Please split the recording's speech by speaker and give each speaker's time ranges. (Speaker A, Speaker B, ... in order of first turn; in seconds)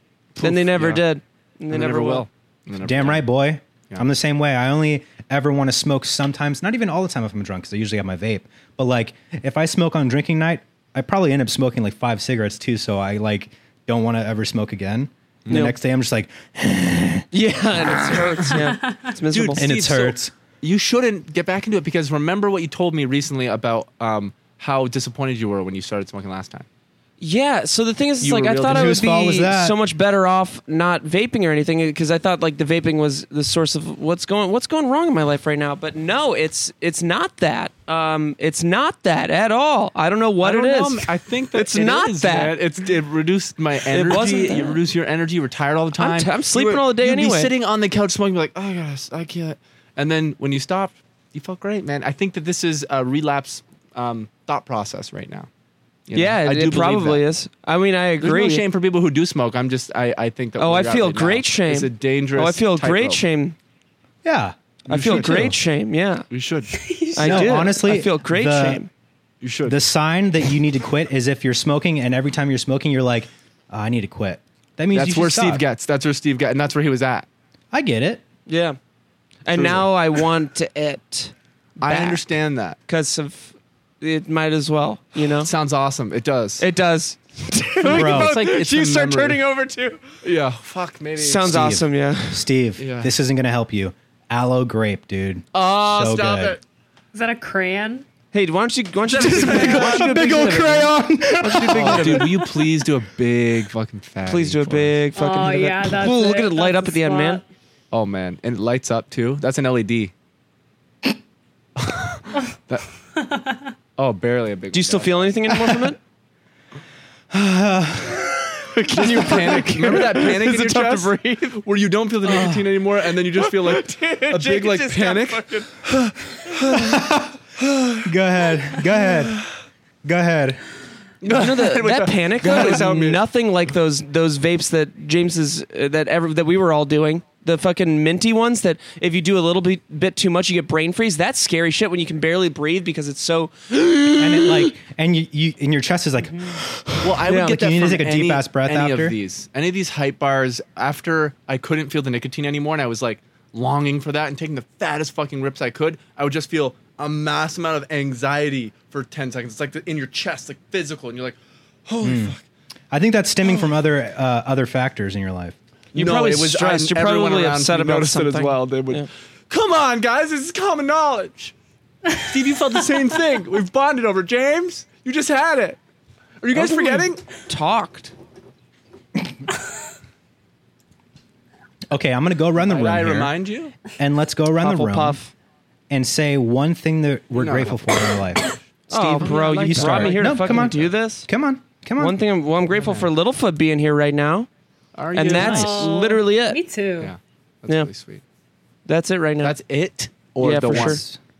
Speaker A: 0.3-1.0, 1.7-3.2, 15.4-15.7, 19.3-26.6, 28.2-29.0, 40.4-55.5, 56.1-57.2, 58.2-63.2, 64.9-65.4, 66.3-66.7, 69.4-69.8, 74.9-77.3, 79.5-79.9, 81.8-82.8, 85.4-86.6, 87.8-89.4, 90.2-91.7, 92.8-93.1, 95.5-96.6, 99.1-100.1, 101.7-105.0, 107.9-110.1, 111.8-112.9, 114.0-115.5, 118.9-125.4, 126.4-127.0, 127.6-128.0, 131.2-133.2, 147.0-162.4, 165.9-171.5, 172.2-175.8, 176.4-177.2, 182.6-183.7, 187.3-188.0, 188.9-190.8, 192.7-193.1, 194.9-195.9, 197.0-198.2, 199.4-201.0
Speaker B: 0.4-2.2, 15.5-15.7, 17.3-19.6, 27.2-42.6, 43.9-44.8, 46.0-47.5, 56.1-58.6, 60.6-63.5, 64.9-66.2, 67.2-68.9, 78.5-78.8, 79.4-82.2, 82.9-85.5, 86.6-90.0, 91.2-92.5, 98.3-102.4, 104.2-107.4, 114.7-116.0, 118.8-121.6, 123.3-125.8, 131.3-144.7, 147.2-147.6, 165.9-169.1, 176.5-178.1, 184.6-185.3, 188.9-191.3, 192.0-194.5, 195.1-196.6, 198.8-199.6, 200.4-201.0
Speaker C: 2.8-17.3, 17.8-18.5, 19.6-20.3, 28.6-29.8, 64.2-65.5, 67.2-68.8, 69.7-75.6, 77.7-78.2, 87.8-88.4, 91.4-96.6, 99.1-102.4, 117.3-119.6, 122.3-122.6, 126.7-127.4, 128.0-129.4, 130.0-130.6, 144.2-149.2, 162.0-162.3, 162.9-165.6, 181.9-183.3, 184.0-185.2, 185.9-192.2, 195.4-195.8, 200.7-201.2
Speaker D: 18.6-19.0, 66.7-67.8, 97.1-98.0, 105.2-107.4, 113.2-113.7, 195.3-197.1